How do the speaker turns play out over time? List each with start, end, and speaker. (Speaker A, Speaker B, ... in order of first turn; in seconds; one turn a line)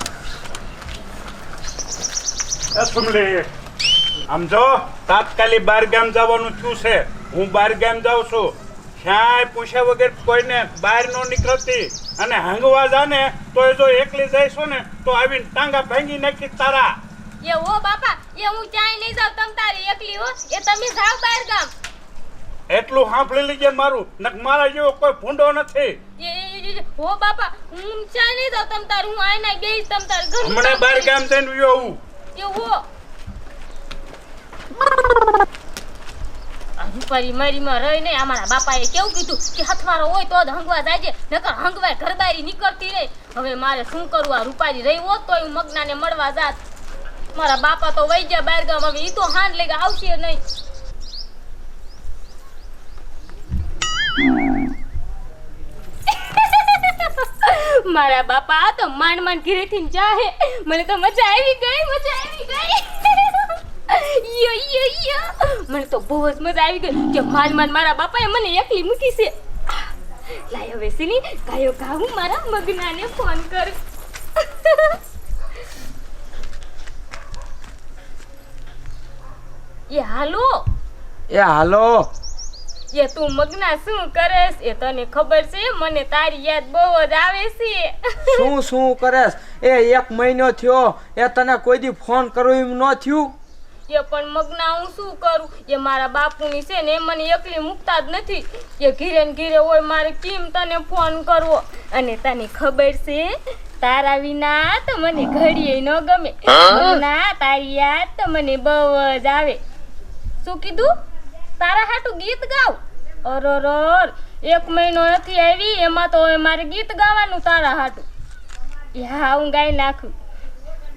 Speaker A: 2.8-3.5
Speaker A: 4.3-16.9
Speaker B: 17.4-21.7
Speaker A: 22.7-26.0
Speaker B: 26.2-31.1
Speaker A: 30.4-32.0
Speaker B: 32.3-32.8
Speaker B: 36.8-46.6
Speaker B: 47.3-50.4
Speaker B: 56.1-73.8
Speaker B: 74.4-75.0
Speaker B: 79.9-80.7
Speaker C: 81.3-82.1
Speaker B: 82.9-88.5
Speaker C: 88.3-93.3
Speaker B: 93.9-109.6
Speaker B: 110.4-110.9
Speaker B: 111.6-118.1
Speaker B: 119.0-120.1